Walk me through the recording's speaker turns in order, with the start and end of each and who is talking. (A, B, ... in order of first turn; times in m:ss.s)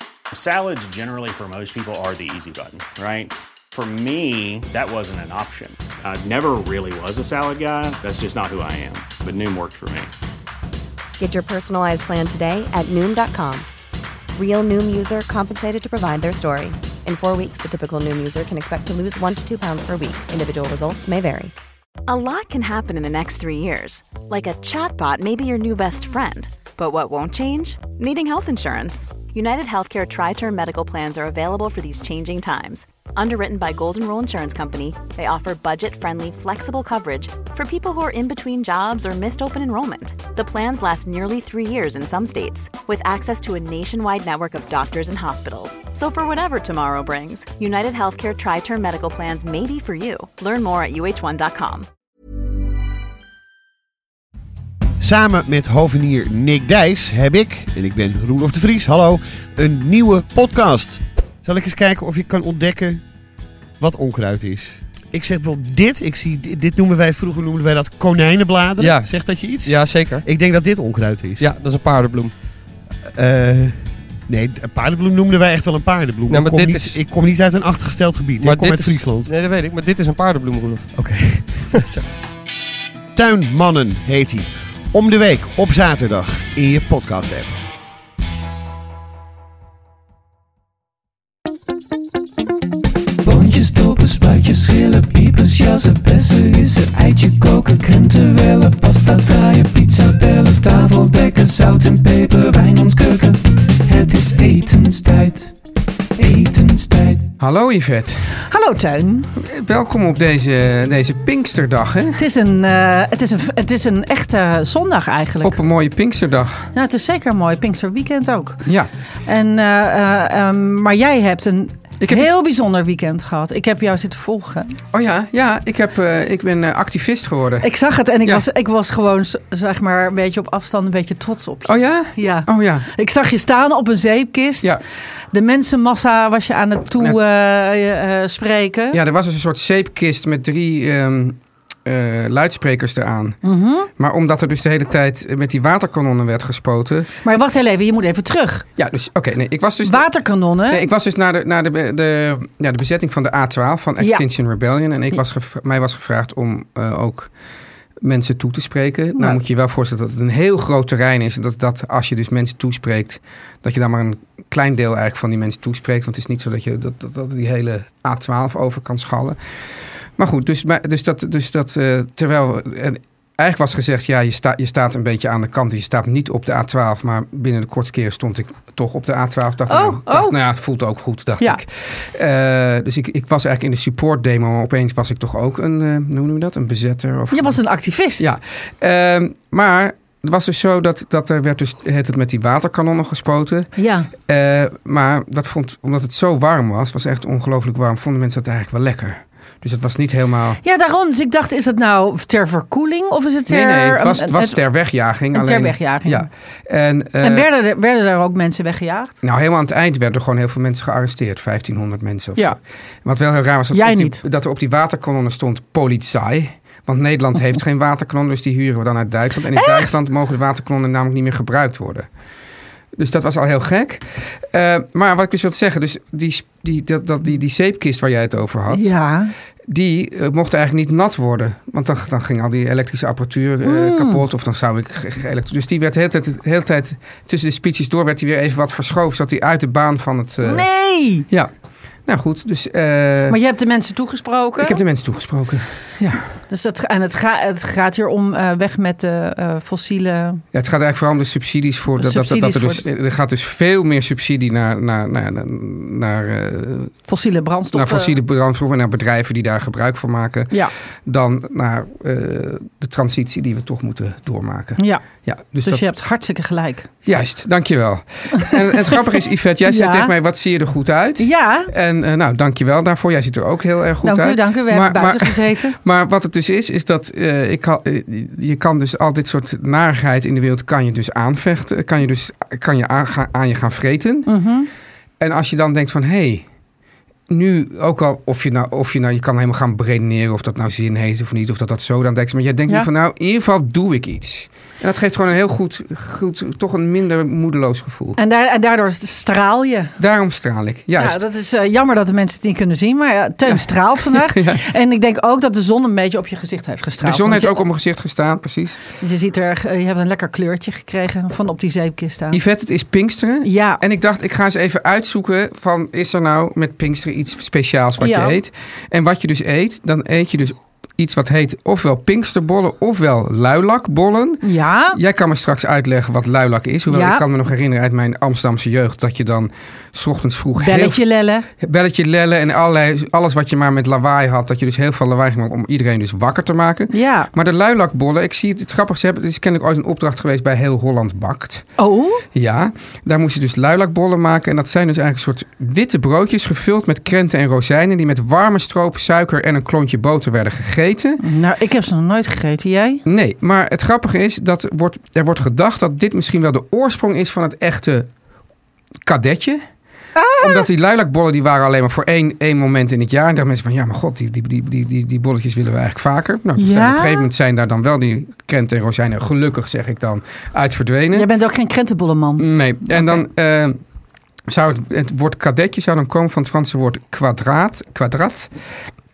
0:00.3-0:10.1 A
0:11.2-0:13.7 B
0:14.3-0:21.5 B
0:22.1-0:51.9 C
0:55.0-1:03.0 D
1:03.8-1:11.5 D
1:08.8-1:10.3 E
1:11.4-1:12.3 E
1:13.1-1:19.3 D
1:16.3-1:17.0 E
1:18.4-1:20.9 E
1:20.9-1:22.0 D
1:23.2-1:27.5 D
1:33.2-1:45.5 F
1:46.2-1:47.3 F
1:47.4-1:48.3 G
1:48.5-1:49.3 H
1:49.4-1:52.2 G
1:52.2-1:55.6 H
1:55.4-1:56.7 G
1:56.7-1:58.6 H
1:59.2-2:04.8 H
2:02.0-2:02.3 G
2:04.9-2:07.6 G
2:07.6-2:14.7 H
2:11.7-2:12.9 G
2:15.3-2:19.0 H
2:18.9-2:23.4 G
2:23.4-2:23.9 H
2:23.9-2:27.1 G
2:27.2-2:28.6 H
2:28.8-2:30.0 G
2:29.8-2:30.8 H
2:30.7-2:37.3 G
2:34.0-2:34.2 H
2:38.0-2:49.4 G
2:39.2-2:39.4 H
2:50.2-3:07.6 G
2:59.7-3:00.4 H
3:07.3-3:08.3 H
3:08.2-3:13.7 G
3:13.8-3:14.1 H
3:14.3-3:20.6 G
3:20.6-3:24.6 H
3:23.5-3:27.5 G
3:25.3-3:26.2 H
3:27.2-3:29.2 H
3:29.2-3:42.1 G
3:33.7-3:34.2 H
3:39.6-3:39.9 H
3:43.0-3:48.9 G
3:48.7-3:49.3 H
3:49.7-4:00.6 G
3:53.6-3:54.2 H
4:00.4-4:01.3 H
4:02.0-4:03.4 G
4:03.3-4:04.8 H
4:04.6-4:06.3 G
4:06.5-4:10.4 H
4:10.5-4:16.9 G
4:12.0-4:12.8 H
4:17.1-4:18.2 H
4:17.7-4:20.5 G
4:21.0-4:25.8 G
4:24.8-4:25.0 H
4:25.6-4:26.9 H
4:27.0-4:44.3 G
4:29.6-4:30.1 H
4:31.2-4:31.7 H
4:34.0-4:35.8 H
4:44.3-4:44.7 H
4:45.2-4:46.4 G
4:47.3-4:58.2 G
4:58.2-5:00.0 H
5:00.0-5:01.2 G
5:01.0-5:07.6 H
5:03.5-5:04.6 G
5:07.0-5:08.8 G
5:09.0-5:12.4 H
5:12.3-5:31.0 G
5:13.4-5:13.8 H
5:18.0-5:18.3 H
5:24.4-5:25.0 H
5:26.9-5:27.2 H
5:30.6-5:31.4 H
5:31.6-5:41.6 G
5:36.9-5:37.3 H
5:41.8-5:42.2 H
5:42.3-5:51.2 G
5:51.2-5:53.0 H
5:53.0-5:58.1 G
5:59.0-5:59.6 G
6:00.1-6:00.7 H
6:00.4-6:11.3 G
6:06.6-6:07.3 H
6:11.1-6:13.2 H
6:12.4-6:13.8 G
6:14.5-6:18.5 G